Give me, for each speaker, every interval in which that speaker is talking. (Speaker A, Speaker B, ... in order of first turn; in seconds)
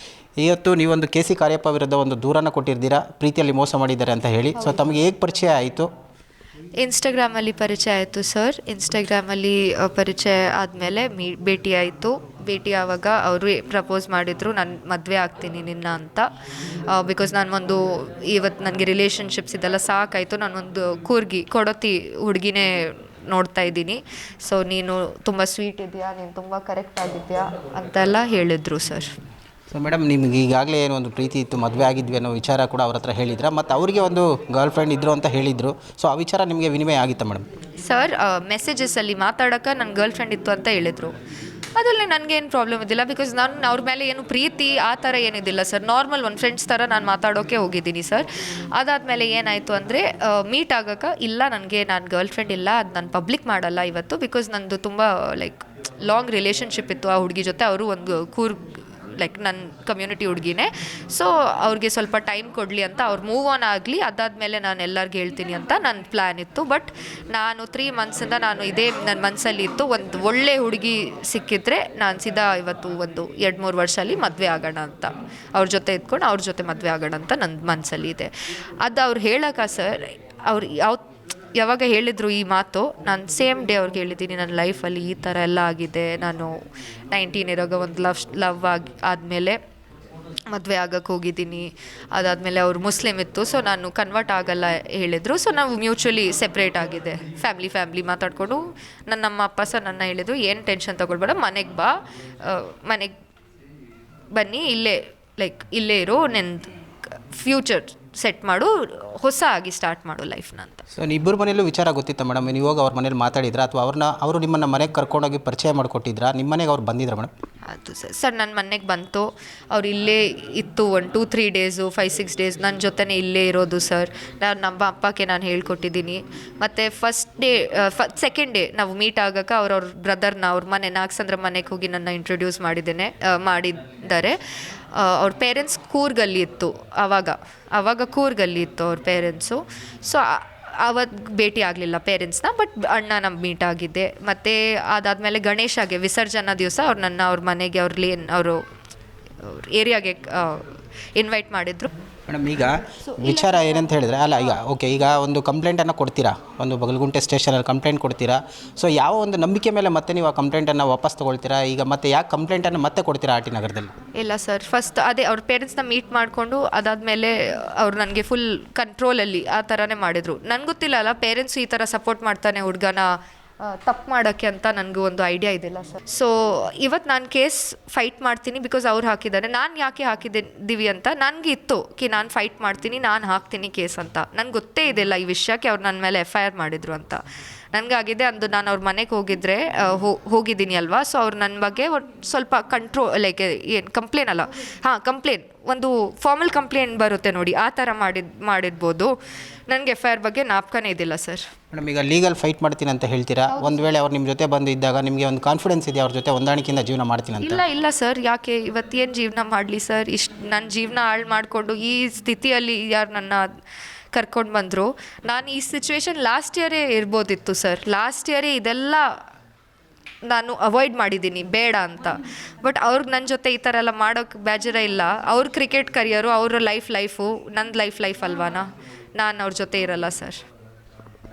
Speaker A: 0.4-5.9, 29.7-37.5, 111.0-117.3, 152.3-163.9, 201.7-207.6
Speaker B: 4.6-4.9, 6.8-16.3, 16.9-29.1, 37.8-41.1, 41.8-89.6, 90.5-103.2, 104.3-110.8, 117.7-134.4, 134.9-148.6, 149.4-151.9, 152.9-154.6, 164.1-199.2, 199.7-201.4, 203.5-203.9, 207.4-213.5, 214.1-219.2, 220.3-230.4